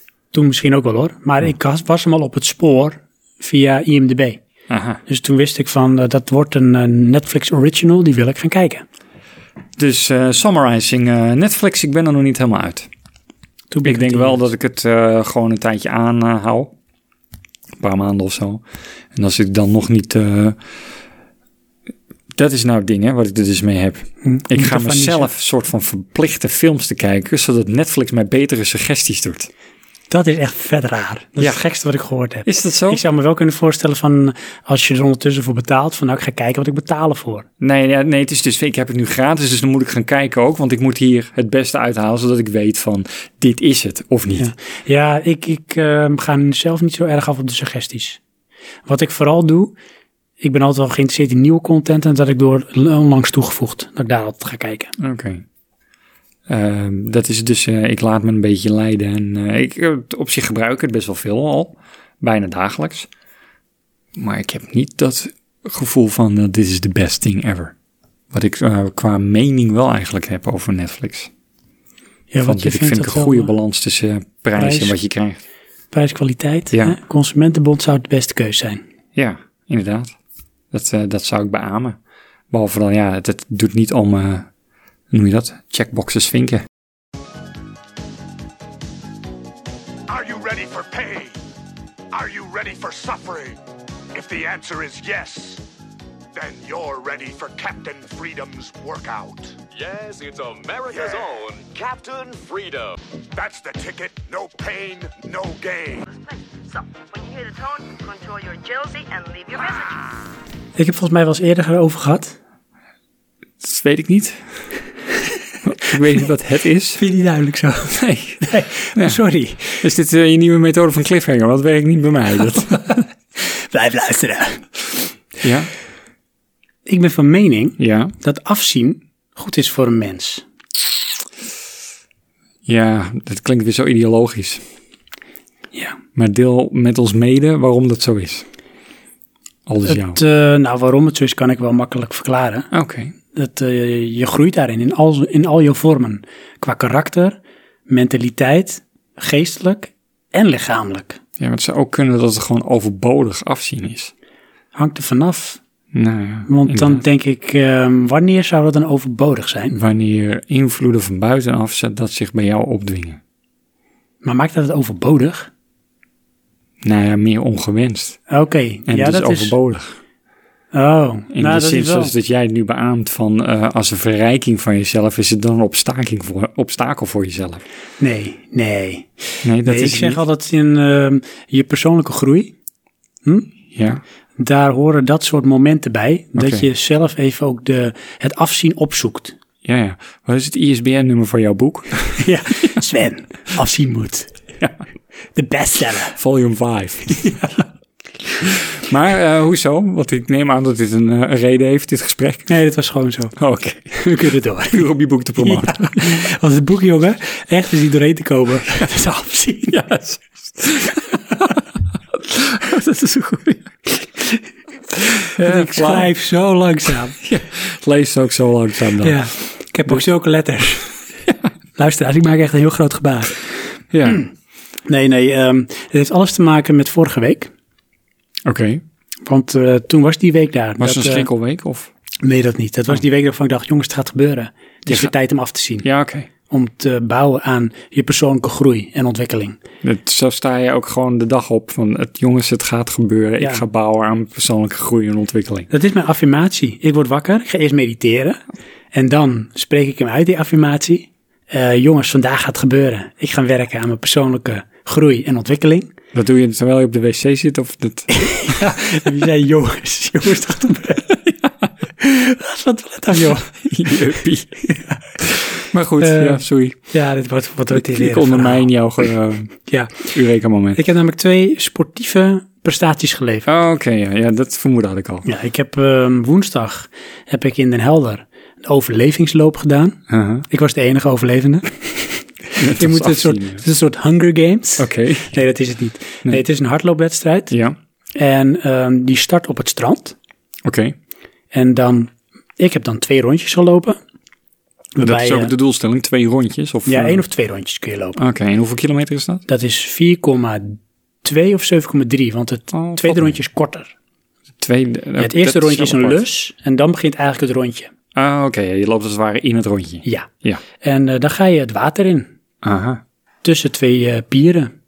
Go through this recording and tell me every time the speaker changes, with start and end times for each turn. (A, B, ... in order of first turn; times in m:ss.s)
0:00.3-0:04.4 A
0:04.7-0:05.0 B
0:05.1-0:08.8 A
0:09.8-0:12.9 B
0:13.7-0:14.4 A
0:13.8-0:16.7 B
0:17.8-0:18.6 B
0:19.1-0:20.6 B
0:22.3-0:29.5 B
0:24.2-0:25.3 A
0:30.1-0:37.4 A
0:32.4-0:33.0 B
0:37.6-0:44.5 B
0:44.4-0:48.2 A
0:48.8-0:49.7 A
0:50.4-0:54.9 A
0:55.0-0:55.4 B
0:56.5-1:03.1 B
1:04.2-1:07.7 B
1:08.3-1:11.3 B
1:12.3-1:13.5 A
1:12.4-1:15.4 B
1:14.6-1:14.9 A
1:15.9-1:18.8 A
1:16.7-1:17.0 B
1:19.2-1:20.1 B
1:20.7-1:22.0 B
1:22.5-1:24.5 B
1:25.1-1:26.6 B
1:30.1-1:31.4 C
1:32.1-1:33.6 C
1:34.1-1:35.6 C
1:36.3-1:39.6 C
1:39.7-1:43.0 D
1:40.8-1:41.4 C
1:43.3-1:46.1 C
1:46.1-1:50.1 E
1:50.8-1:52.4 A
1:53.6-1:54.4 B
1:55.6-1:57.0 B
1:57.0-1:59.8 A
1:57.9-1:59.2 B
1:59.7-2:02.9 B
2:03.7-2:04.7 A
2:05.4-2:05.7 B
2:06.8-2:10.4 A
2:07.8-2:08.1 B
2:12.6-2:14.6 B
2:16.1-2:18.4 B
2:19.6-2:20.2 B
2:19.9-2:22.7 A
2:22.7-2:23.1 B
2:23.3-2:31.2 A
2:31.4-2:34.1 B
2:34.7-2:35.6 A
2:35.9-2:37.0 B
2:36.5-2:39.8 A
2:39.7-2:43.2 B
2:44.2-2:45.5 A
2:46.8-2:48.2 B
2:48.3-2:49.5 A
2:48.9-2:50.0 B
2:50.7-2:52.1 A
2:51.3-2:57.6 B
2:58.0-3:02.5 A
2:59.4-3:00.2 B
3:03.2-3:03.5 A
3:03.7-3:04.0 B
3:04.4-3:09.3 A
3:06.4-3:06.6 B
3:09.6-3:12.2 B
3:12.2-3:14.3 A
3:15.3-3:16.2 A
3:16.2-3:17.3 B
3:17.2-3:17.5 A
3:18.4-3:22.5 B
3:22.5-3:23.4 A
3:23.4-3:26.3 B
3:24.0-3:24.8 A
3:25.4-3:29.7 A
3:29.7-3:31.6 B
3:32.2-3:33.7 B
3:35.3-3:36.1 B
3:35.4-3:37.2 A
3:37.2-3:39.2 B
3:39.0-3:40.9 A
3:41.8-3:43.4 A
3:43.9-3:44.2 B
3:44.8-3:47.5 A
3:48.4-3:48.8 B
3:49.2-3:51.3 A
3:50.8-3:51.9 B
3:52.2-3:55.8 A
3:55.8-3:56.3 B
3:56.5-3:59.6 A
3:59.8-4:05.7 B
4:05.7-4:08.4 A
4:08.9-4:15.9 A
4:16.1-4:18.5 B
4:18.1-4:21.1 A
4:22.0-4:23.7 A
4:23.6-4:24.6 B
4:24.7-4:25.0 A
4:25.2-4:26.8 B
4:26.0-4:28.7 A
4:27.7-4:30.8 B
4:29.7-4:30.1 A
4:30.7-4:33.5 A
4:33.5-4:35.3 B
4:35.2-4:40.0 A
4:40.1-4:40.5 B
4:40.5-4:42.2 A
4:42.6-4:43.6 B
4:42.8-4:47.5 A
4:44.8-4:45.4 B
4:47.5-4:47.8 B
4:48.1-4:50.2 A
4:50.6-4:50.9 B
4:51.5-4:54.0 A
4:55.0-4:55.5 A
4:55.0-4:57.2 B
4:56.9-4:58.2 A
4:58.2-4:59.4 B
4:59.5-5:03.9 A
5:02.7-5:03.3 B
5:04.6-5:06.2 B
5:05.2-5:07.9 A
5:08.1-5:10.6 B
5:10.8-5:12.3 A
5:12.6-5:13.0 B
5:13.4-5:14.7 A